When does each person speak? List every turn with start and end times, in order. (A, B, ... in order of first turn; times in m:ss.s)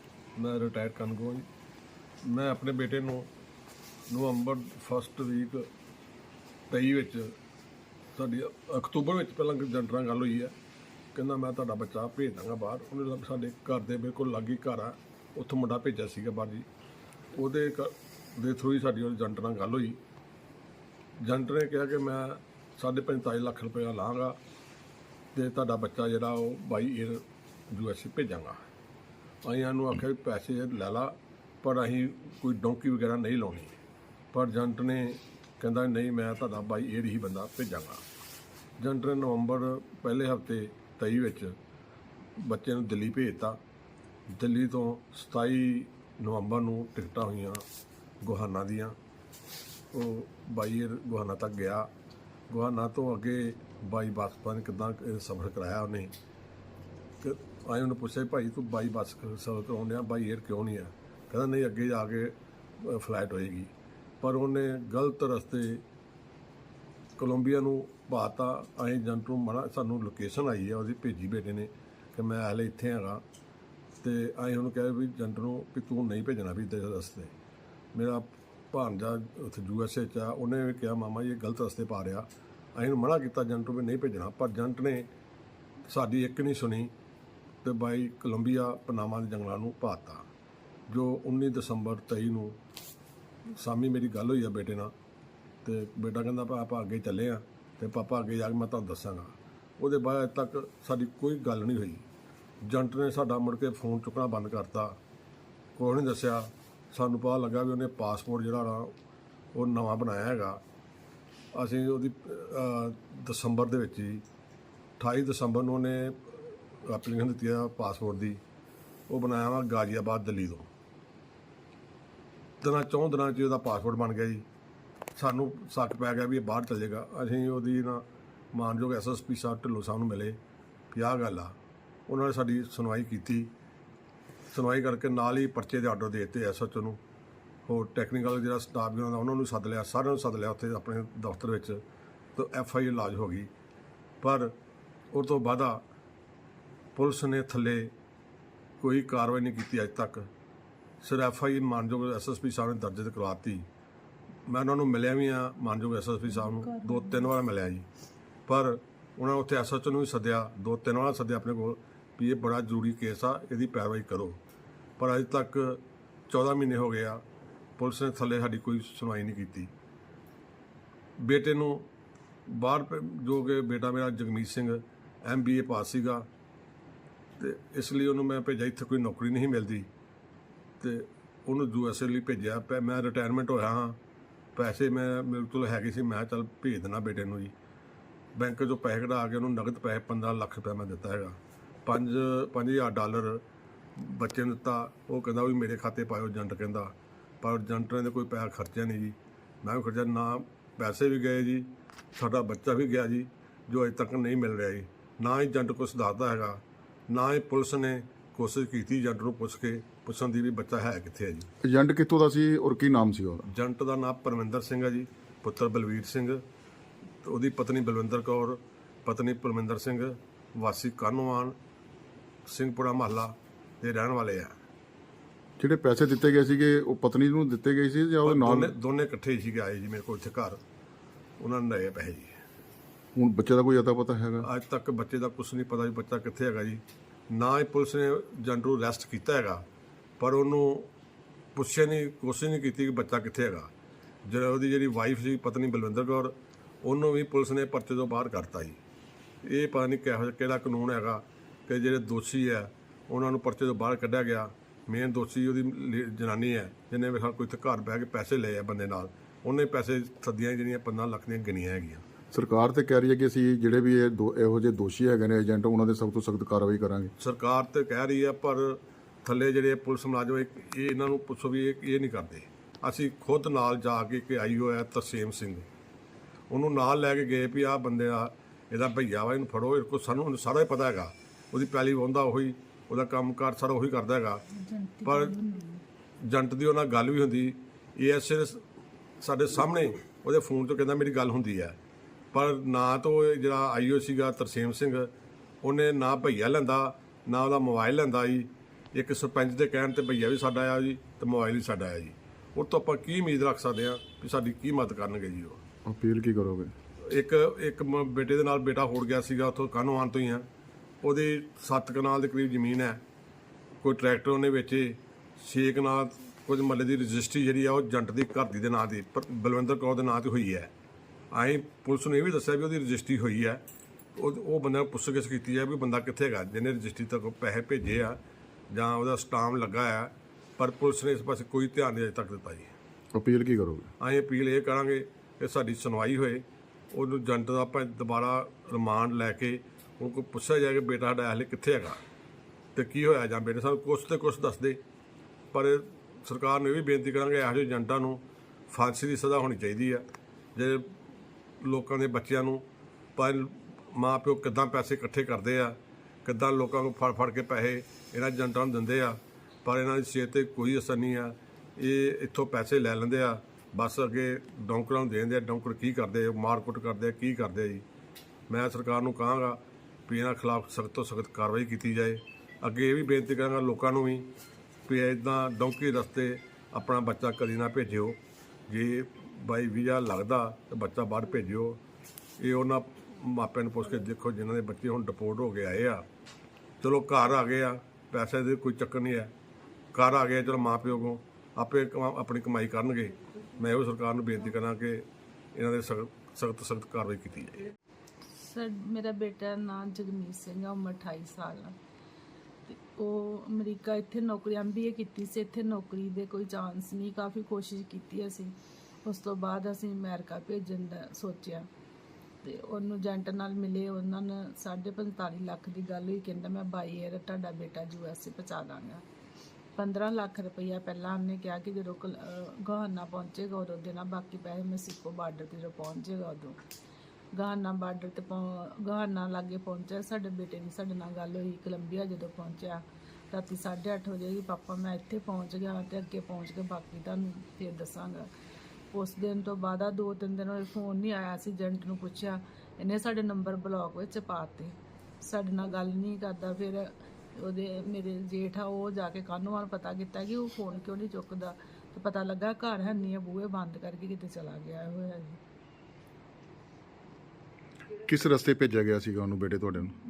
0:00.4-0:01.5 A
0:02.2-0:03.3 A
0:04.1-0:05.7 A
0:06.7-0:07.3 A
0:08.2-0:10.5 A
0:11.2-0:16.7 A
0:17.4-0:20.0 A
0:21.2-0:24.4 A
0:25.3-0:28.6 A
0:29.4-0:33.8 A
0:34.3-0:38.0 A
0:38.8-0:41.6 A
0:42.4-0:43.6 A
0:44.3-0:47.6 A
0:48.2-0:49.0 A
0:49.9-0:51.9 A
0:52.5-0:56.1 A
0:57.2-1:03.7 A
1:04.2-1:05.8 A
1:07.2-1:13.2 A
1:14.0-1:17.3 A
1:18.0-1:25.1 A
1:25.9-1:26.9 A
1:27.6-1:30.2 A
1:30.9-1:32.6 A
1:33.6-1:34.9 A
1:35.6-1:42.0 A
1:42.6-1:44.9 A
1:45.8-1:48.9 A
1:49.5-1:50.6 A
1:51.6-1:54.2 A
1:55.0-1:58.4 A
1:59.1-2:00.7 A
2:02.6-2:04.4 A
2:05.2-2:10.4 A
2:10.9-2:11.6 A
2:12.1-2:13.5 A
2:14.5-2:17.0 A
2:17.7-2:21.8 A
2:22.4-2:23.5 A
2:24.2-2:24.5 A
2:25.1-2:25.8 A
2:27.0-2:27.9 A
2:28.8-2:30.3 A
2:31.0-2:33.7 A
2:34.5-2:37.9 A
2:38.5-2:44.4 A
2:45.0-2:47.2 A
2:47.8-2:49.7 A
2:51.2-2:51.9 A
2:52.5-2:56.3 A
2:57.4-2:59.9 A
3:00.8-3:04.0 A
3:04.6-3:07.5 A
3:08.4-3:13.4 A
3:14.0-3:31.5 A
3:31.6-3:33.5 B
3:33.5-3:36.4 A
3:37.2-3:41.6 A
3:42.5-3:44.6 A
3:45.6-3:48.7 B
3:48.2-3:50.6 A
3:51.4-3:52.3 A
3:53.2-3:54.5 B
3:54.4-3:59.6 A
4:00.2-4:00.9 A
4:01.6-4:03.7 A
4:04.3-4:08.8 A
4:09.4-4:22.0 A
4:22.3-4:27.1 B
4:27.2-4:35.6 A
4:36.5-4:44.4 A
4:44.6-4:45.8 C
4:45.0-4:45.3 A
4:46.2-4:48.6 A
4:49.2-4:51.8 A
4:52.3-4:55.1 A
4:55.6-5:05.6 A
5:05.8-5:06.7 B
5:07.0-5:10.5 A
5:11.0-5:13.0 A
5:13.8-5:20.7 A
5:21.3-5:23.6 A
5:24.2-5:28.2 A
5:28.7-5:32.7 A
5:33.1-5:33.9 B
5:34.0-5:42.0 A
5:42.8-5:44.8 A
5:45.5-5:50.9 A
5:51.6-5:52.6 A
5:53.2-6:07.8 A
6:08.5-6:14.3 A
6:14.9-6:18.2 A
6:18.7-6:21.8 A
6:22.4-6:26.0 A
6:26.8-6:29.3 A
6:29.9-6:37.6 A
6:38.4-6:41.8 C
6:42.7-6:51.7 C
6:52.4-6:59.0 C
6:59.8-7:06.6 C
7:07.3-7:18.3 C
7:18.9-7:35.4 C
7:38.1-7:40.0 B